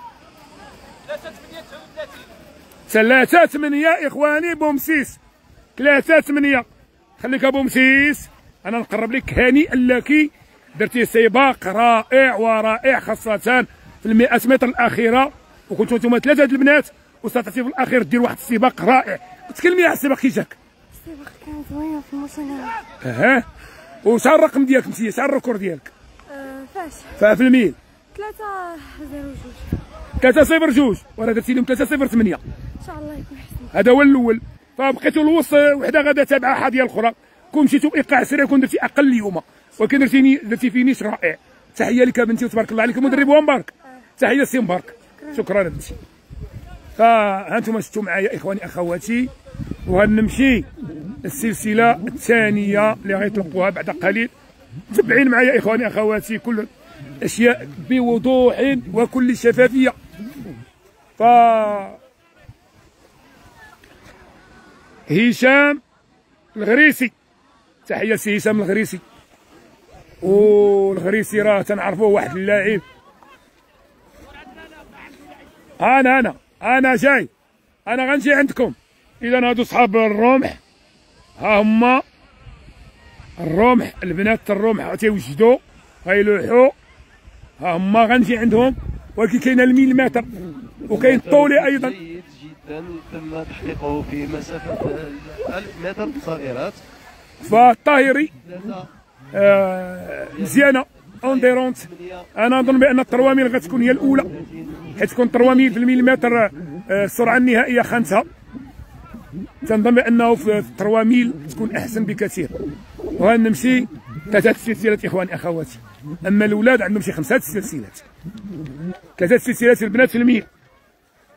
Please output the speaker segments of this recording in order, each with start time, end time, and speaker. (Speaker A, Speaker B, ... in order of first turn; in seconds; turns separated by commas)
Speaker A: 2.9-5.2, Speaker A: 5.8-6.7, Speaker A: 7.2-20.6, Speaker B: 21.0-22.8, Speaker A: 23.0-23.4, Speaker A: 24.0-25.9, Speaker B: 26.3-27.1, Speaker A: 27.2-27.8, Speaker B: 28.1-29.7, Speaker A: 30.2-32.4, Speaker B: 32.8-33.7, Speaker A: 33.7-46.0, Speaker A: 47.0-49.3, Speaker A: 49.9-50.7, Speaker A: 51.2-54.3, Speaker A: 54.9-56.7, Speaker A: 57.2-60.0, Speaker A: 61.2-62.0, Speaker A: 65.1-65.8, Speaker A: 66.5-67.1, Speaker A: 67.9-69.0, Speaker A: 70.2-72.8, Speaker A: 75.8-77.3, Speaker A: 77.9-80.6, Speaker A: 81.4-82.0, Speaker A: 83.4-86.7, Speaker A: 87.6-92.0, Speaker C: 90.9-96.8, Speaker A: 97.4-98.3, Speaker C: 98.4-98.9, Speaker A: 99.3-104.3, Speaker C: 100.4-100.6, Speaker C: 101.2-102.2, Speaker C: 104.4-104.9, Speaker A: 105.0-108.3, Speaker A: 109.6-112.5, Speaker A: 113.2-118.0, Speaker A: 119.2-120.5